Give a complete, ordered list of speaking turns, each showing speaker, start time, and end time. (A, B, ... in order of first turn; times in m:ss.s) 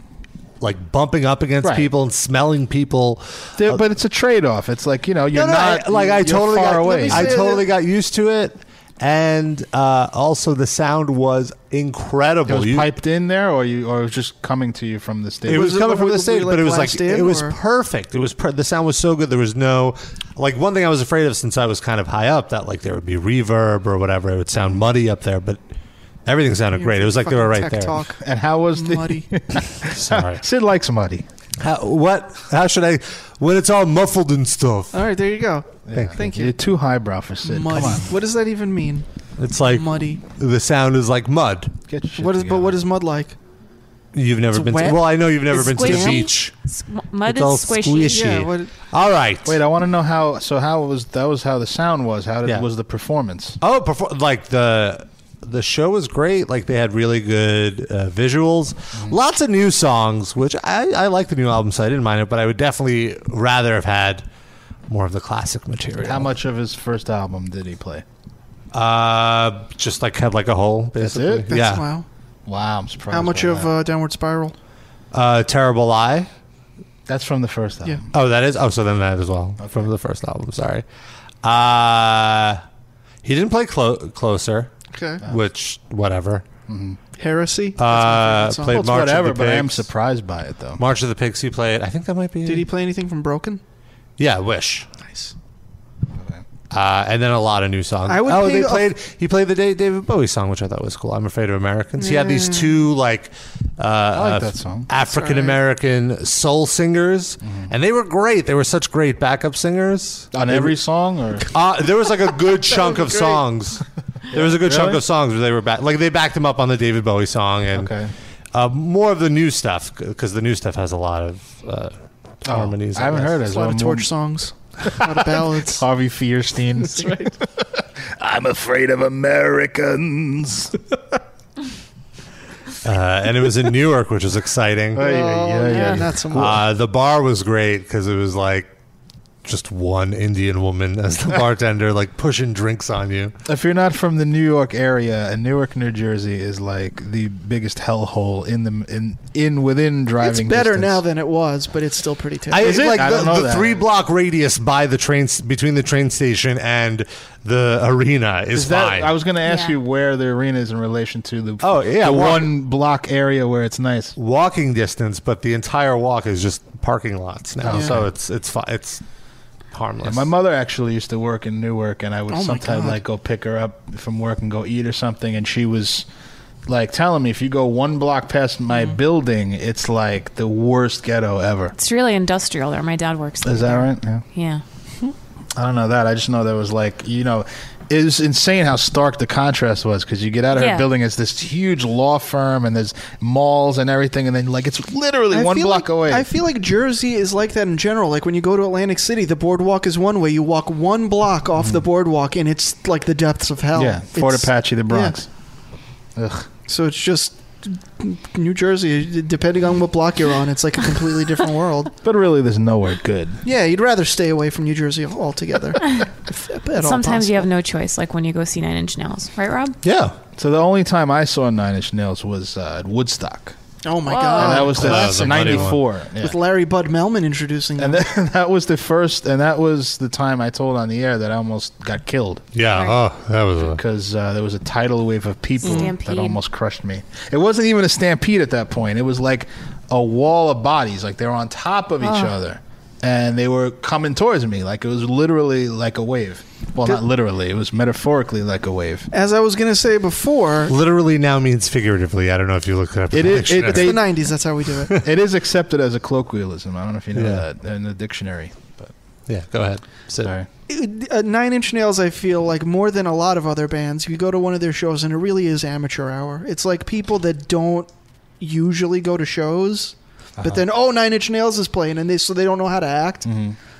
0:00.6-0:03.8 A
0:01.6-0:01.9 B
0:03.6-0:07.4 B
0:05.3-0:12.9 A
0:06.8-0:07.6 C
0:12.5-0:15.7 B
0:15.4-0:25.6 A
0:15.5-0:17.6 C
0:26.2-0:28.0 A
0:26.7-0:28.2 C
0:28.2-0:31.2 B
0:28.7-0:29.2 C
0:29.9-0:30.4 A
0:31.6-0:35.0 A
0:34.9-0:36.6 C
0:35.9-0:38.1 B
0:37.4-0:39.0 C
0:39.4-0:41.7 A
0:39.6-0:40.2 C
0:41.9-0:42.8 B
0:42.2-0:43.3 C
0:44.1-0:46.5 A
0:44.5-0:46.3 C
0:45.6-0:48.3 D
0:47.2-0:49.6 A
0:48.1-0:48.7 C
0:49.4-0:53.6 B
0:53.6-1:04.2 A
1:04.9-1:06.3 A
1:06.0-1:08.0 B
1:08.7-1:11.8 A
1:11.0-1:11.5 B
1:11.5-1:12.0 C
1:12.4-1:13.7 B
1:13.1-1:14.5 C
1:15.1-1:16.3 A
1:17.1-1:18.0 B
1:18.1-1:20.8 A
1:21.4-1:22.6 A
1:23.2-1:24.7 A
1:24.9-1:25.2 C
1:25.2-1:26.4 A
1:26.7-1:27.0 B
1:27.2-1:28.8 C
1:27.8-1:29.9 A
1:28.7-1:30.8 B
1:30.8-1:32.7 A
1:32.4-1:33.6 C
1:34.2-1:34.9 A
1:35.0-1:35.3 C
1:36.2-1:36.4 B
1:36.7-1:50.8 A
1:38.1-1:38.9 C
1:42.0-1:42.7 C
1:44.1-1:44.9 B
1:45.0-1:45.6 C
1:47.4-1:47.7 B
1:50.3-1:51.5 B
1:51.5-1:57.9 A
1:52.7-1:53.4 C
1:54.3-1:55.0 B
1:57.7-1:58.1 B
1:58.5-2:03.4 A
2:02.4-2:04.1 B
2:03.4-2:05.8 C
2:05.6-2:07.3 B
2:06.9-2:07.3 C
2:08.2-2:10.7 B
2:12.8-2:15.1 A
2:14.9-2:16.6 B
2:15.0-2:16.6 C
2:15.7-2:18.7 A
2:19.4-2:23.3 A
2:23.4-2:31.0 B
2:30.2-2:32.8 C
2:32.5-2:39.1 A
2:32.6-2:33.8 B
2:38.5-2:44.2 B
2:39.4-2:39.8 D
2:41.6-2:42.5 A
2:44.2-2:49.0 A
2:47.6-2:48.0 B
2:49.7-2:50.3 A
2:50.0-2:56.0 B
2:52.3-2:53.0 C
2:56.7-3:01.7 B
3:01.7-3:04.6 D
3:03.4-3:04.2 B
3:05.6-3:16.2 B
3:10.5-3:10.9 D
3:15.3-3:25.2 C
3:23.7-3:25.3 B
3:26.2-3:26.5 B
3:26.7-3:31.9 C
3:32.0-3:33.4 B
3:33.4-3:37.5 C
3:36.8-3:39.8 D
3:39.8-3:40.2 A
3:40.4-3:43.6 B
3:43.8-3:48.0 C
3:44.1-3:44.6 D
3:44.3-3:46.4 B
3:44.6-3:45.8 A
3:47.8-3:52.4 B
3:52.5-3:53.8 A
3:53.6-4:09.1 B
3:55.6-3:56.4 D
3:55.6-3:55.9 C
4:02.0-4:02.3 D
4:09.1-4:10.7 C
4:10.7-4:14.0 A
4:13.1-4:14.0 B
4:13.7-4:14.9 C
4:14.9-4:18.9 B
4:17.1-4:17.4 A
4:19.3-4:20.3 A
4:20.2-4:20.5 B
4:20.7-4:33.2 C
4:30.4-4:30.6 B
4:33.2-4:33.6 B